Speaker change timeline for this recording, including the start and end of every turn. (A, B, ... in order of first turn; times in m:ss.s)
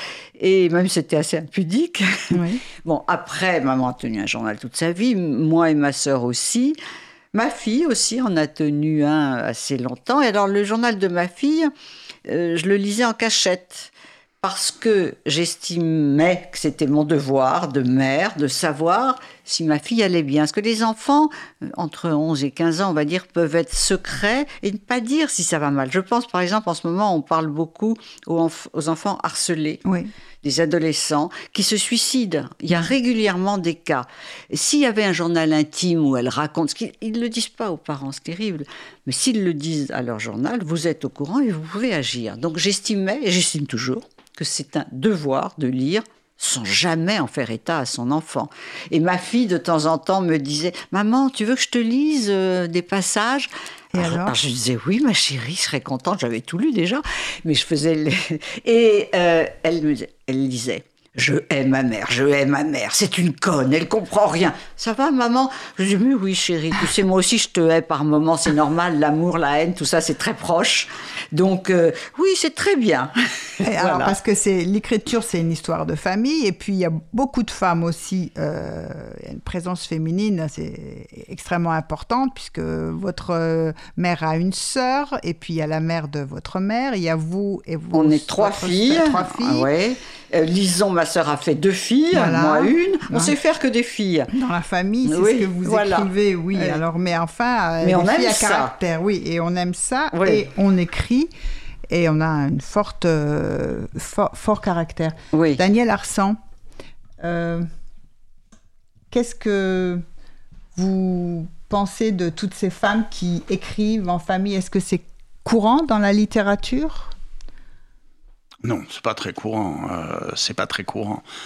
0:00.4-0:06.8 A
0:02.3-0:02.6 B
0:07.3-0:11.7 A
0:12.2-0:13.9 A
0:14.4-0:29.8 A
0:29.8-0:30.1 B
0:30.4-1:14.2 A
0:53.9-0:54.4 B
1:13.6-1:29.7 B
1:27.9-1:34.3 A
1:32.1-1:33.3 B
1:34.3-1:41.3 B
1:35.0-1:36.8 A
1:37.8-1:38.7 A
1:40.1-1:40.5 A
1:41.9-1:46.4 B
1:45.3-1:45.6 A
1:47.2-1:47.7 B
1:49.1-1:50.0 B
1:50.7-1:57.1 B
1:58.6-2:01.2 C